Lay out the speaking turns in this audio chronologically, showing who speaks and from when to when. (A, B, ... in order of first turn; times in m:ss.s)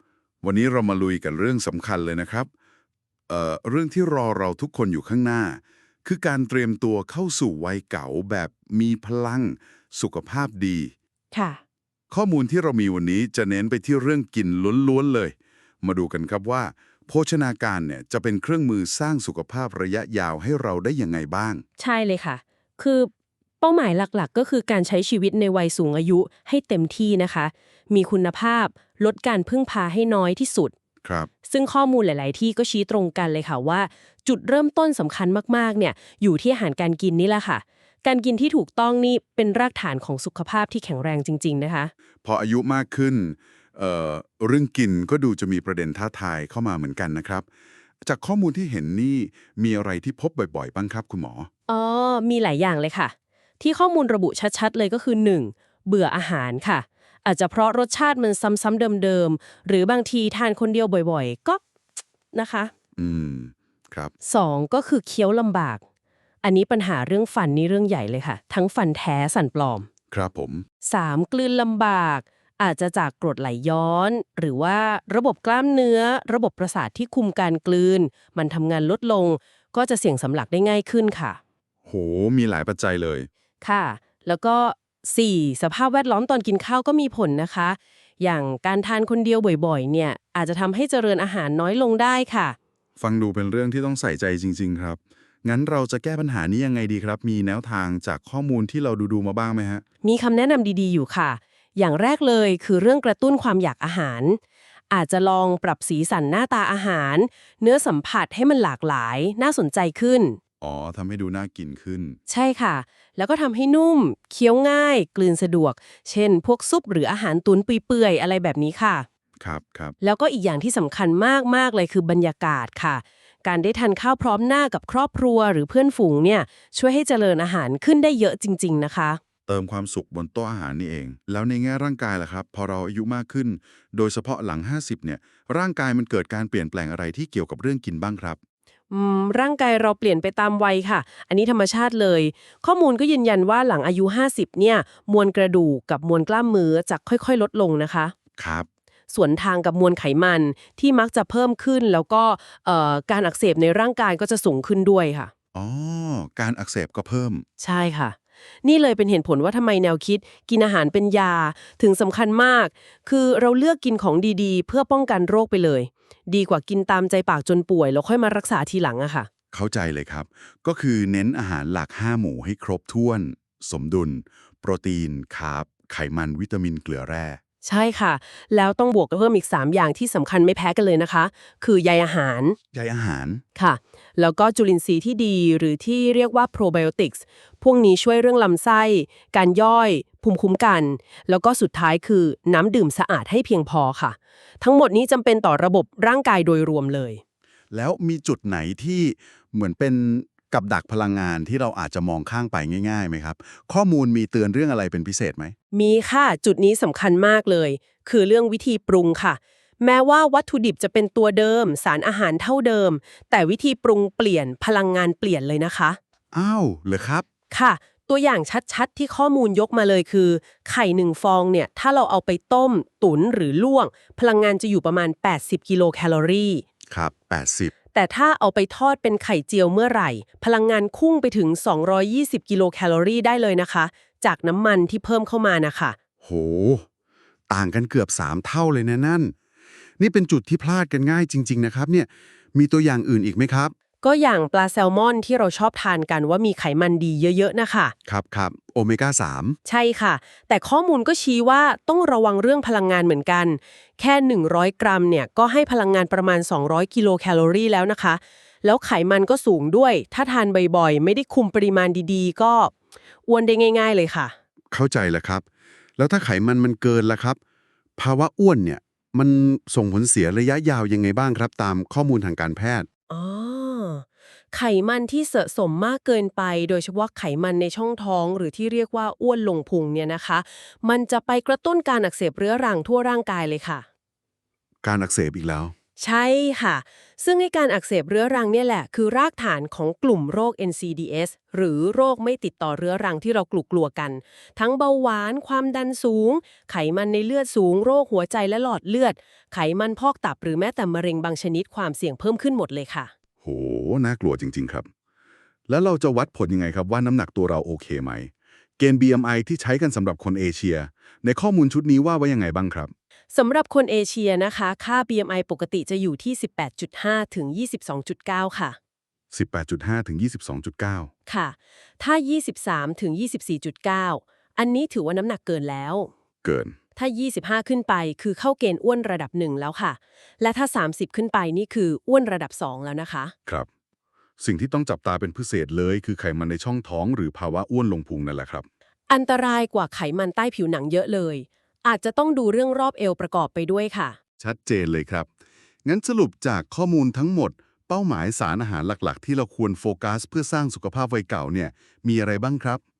0:00.4-0:02.5 A
0:03.3-0:10.9 A
0:11.3-0:11.6 B
0:12.1-0:21.6 A
0:21.8-0:30.7 B
0:31.0-0:31.3 A
0:31.4-0:41.9 B
0:42.2-0:47.5 A
0:48.0-0:51.5 A
0:51.7-1:01.6 B
1:02.3-1:02.7 B
1:03.0-1:04.1 A
1:04.2-1:05.8 B
1:06.4-1:09.9 B
1:10.1-1:10.7 A
1:10.8-1:21.4 B
1:21.9-1:23.3 A
1:23.6-1:32.6 B
1:33.0-1:39.8 A
1:40.0-1:44.4 B
1:44.9-1:50.4 B
1:50.6-1:52.2 A
1:52.3-1:59.1 B
1:59.4-2:00.0 A
2:00.0-2:09.2 B
2:09.5-2:18.4 A
2:18.9-2:28.1 B
2:28.4-2:28.7 A
2:29.1-2:35.3 B
2:35.5-2:37.4 A
2:37.6-2:49.3 B
2:49.5-2:57.4 A
2:57.6-3:02.6 B
3:02.7-3:03.4 A
3:03.6-3:17.2 B
3:17.7-3:25.5 A
3:25.7-3:36.0 B
3:36.3-3:37.2 A
3:37.5-3:46.6 B
3:46.9-3:47.7 A
3:47.9-3:56.0 B
3:56.2-3:56.8 A
3:57.5-3:59.3 A
4:00.0-4:03.7 A
4:04.0-4:08.0 B
4:08.1-4:09.6 A
4:09.7-4:22.7 B
4:23.3-4:24.4 B
4:24.7-4:25.4 A
4:26.0-4:27.4 A
4:28.0-4:32.9 A
4:33.1-4:43.8 B
4:44.8-4:45.7 A
4:46.0-5:03.1 B
5:03.4-5:04.9 A
5:05.7-5:12.9 A
5:13.3-5:18.8 B
5:19.3-5:21.1 A
5:21.3-5:26.1 B
5:26.4-5:26.8 A
5:27.0-5:33.3 B
5:34.4-5:38.7 A
5:39.1-5:44.2 B
5:44.4-5:45.3 A
5:45.8-5:52.8 A